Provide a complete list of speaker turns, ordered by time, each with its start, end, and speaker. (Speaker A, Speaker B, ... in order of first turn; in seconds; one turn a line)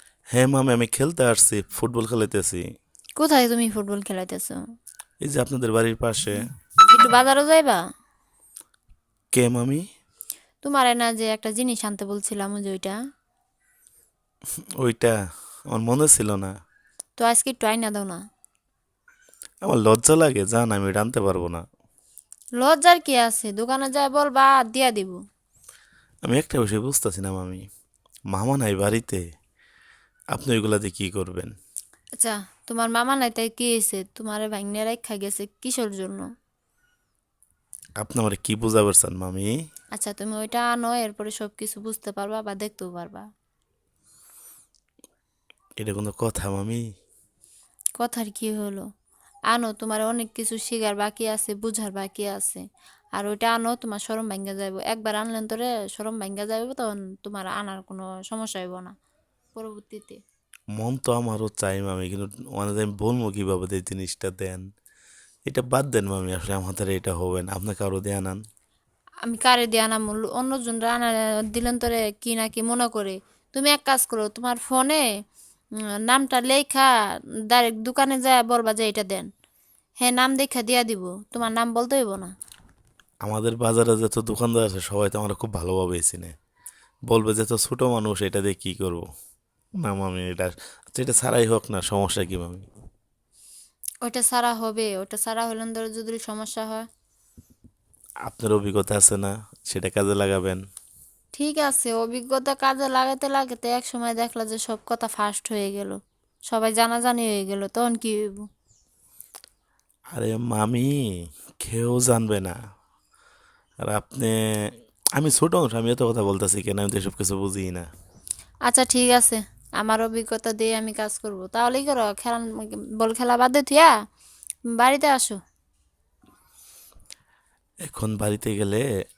Speaker A: 0.3-2.6
Speaker B: 3.2-4.6
Speaker A: 5.2-6.5
Speaker B: 6.9-7.8
Speaker A: 9.3-9.8
Speaker B: 10.6-13.0
Speaker A: 14.8-15.2
Speaker A: 15.7-16.5
Speaker B: 17.2-18.2
Speaker A: 19.6-21.6
Speaker B: 22.6-25.2
Speaker A: 26.3-27.6
Speaker A: 28.3-29.2
Speaker A: 30.3-31.5
Speaker B: 32.2-36.3
Speaker A: 38.0-39.5
Speaker B: 40.0-43.2
Speaker A: 45.8-46.8
Speaker B: 48.0-48.9
Speaker B: 49.5-52.6
Speaker B: 53.2-58.9
Speaker B: 59.6-60.2
Speaker A: 60.8-64.6
Speaker A: 65.5-68.4
Speaker B: 69.2-75.0
Speaker B: 76.1-76.9
Speaker B: 77.5-79.3
Speaker B: 80.0-82.3
Speaker A: 83.2-86.3
Speaker A: 87.1-89.0
Speaker A: 89.8-92.7
Speaker B: 94.0-96.9
Speaker A: 98.3-100.6
Speaker B: 101.3-108.5
Speaker A: 110.1-110.9
Speaker A: 111.6-112.6
Speaker A: 113.9-114.3
Speaker A: 115.2-117.8
Speaker B: 118.7-123.9
Speaker B: 124.8-125.4
Speaker A: 127.9-128.8